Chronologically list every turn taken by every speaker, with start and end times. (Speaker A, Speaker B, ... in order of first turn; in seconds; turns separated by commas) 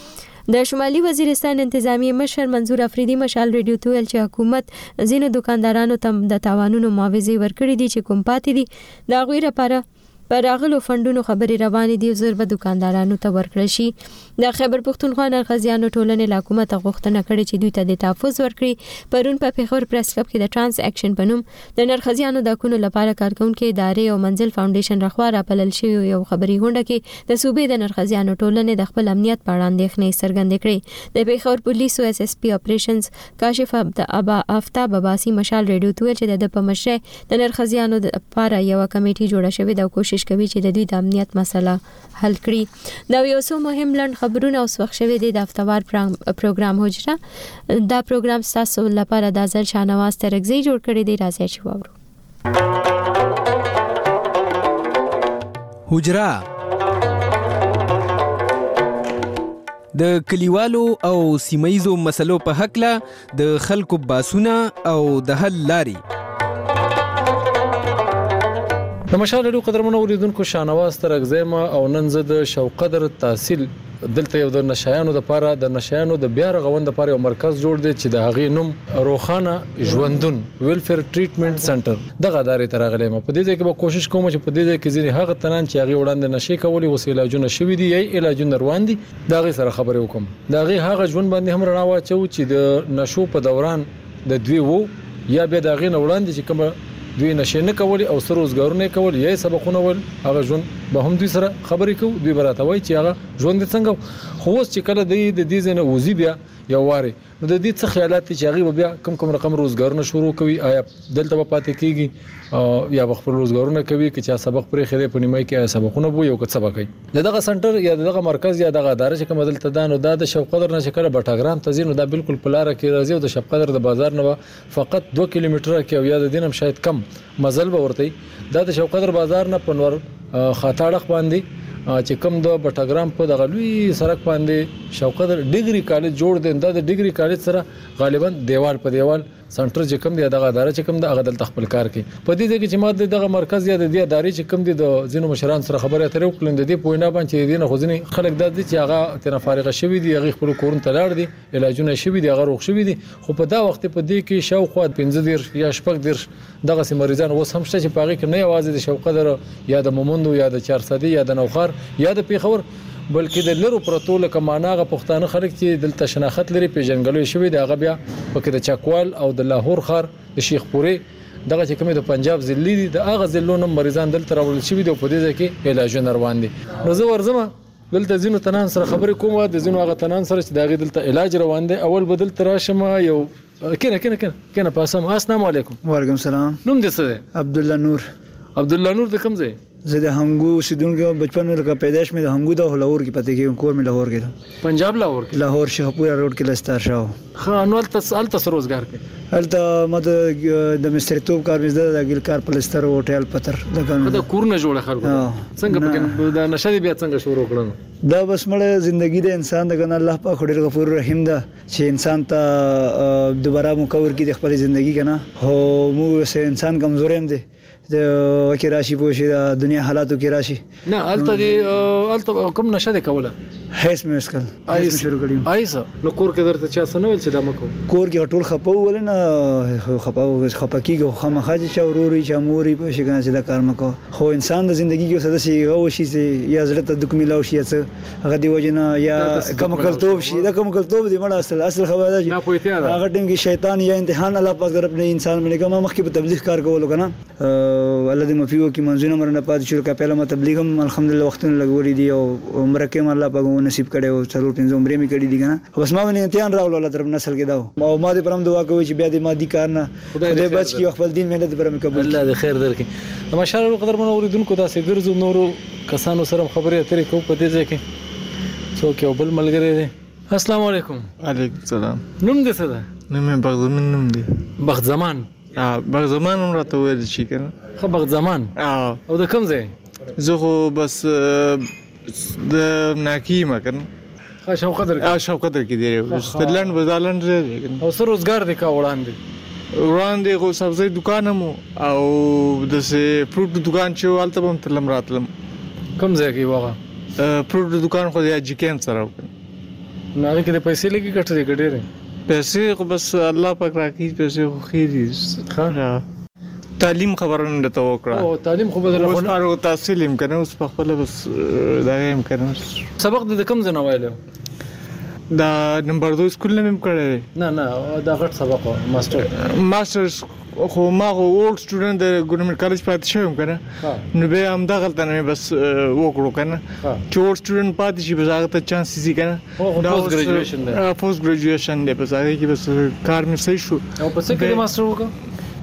Speaker A: 0.5-47.2, Speaker A: 47.7-51.9, Speaker B: 55.9-56.4, Speaker B: 59.9-66.0, Speaker C: 69.1-185.8, Speaker D: 185.8-186.6, Speaker C: 186.6-187.2, Speaker D: 187.3-188.1, Speaker C: 188.6-189.6, Speaker D: 189.8-194.3, Speaker C: 194.6-195.4, Speaker D: 195.3-197.1, Speaker C: 197.4-199.0, Speaker D: 199.3-204.2, Speaker C: 204.0-207.8, Speaker D: 205.0-206.1, Speaker D: 208.0-220.6, Speaker C: 220.9-223.3, Speaker D: 221.2-221.5, Speaker D: 223.7-225.5, Speaker C: 224.7-227.8, Speaker D: 227.9-262.2, Speaker C: 239.2-240.5, Speaker C: 242.3-243.0, Speaker C: 260.1-260.8, Speaker C: 262.0-267.8, Speaker C: 268.8-271.1, Speaker E: 271.2-272.0, Speaker C: 272.2-272.9, Speaker E: 273.1-274.3, Speaker C: 274.6-275.3, Speaker E: 275.5-277.5, Speaker C: 277.8-278.5, Speaker E: 278.6-279.0, Speaker C: 279.1-279.7, Speaker E: 280.1-283.9, Speaker C: 284.4-285.1, Speaker E: 285.0-287.8, Speaker C: 286.1-286.7, Speaker C: 287.8-289.2, Speaker E: 289.8-295.3, Speaker C: 296.0-296.8, Speaker E: 297.2-299.3, Speaker C: 300.2-301.9, Speaker E: 302.3-306.0, Speaker E: 306.8-308.2, Speaker C: 308.1-309.3, Speaker E: 308.9-312.8, Speaker C: 313.0-314.2, Speaker E: 315.3-317.2, Speaker C: 317.4-319.3, Speaker E: 319.3-323.6, Speaker E: 324.1-334.7, Speaker C: 329.6-330.8, Speaker C: 334.0-335.1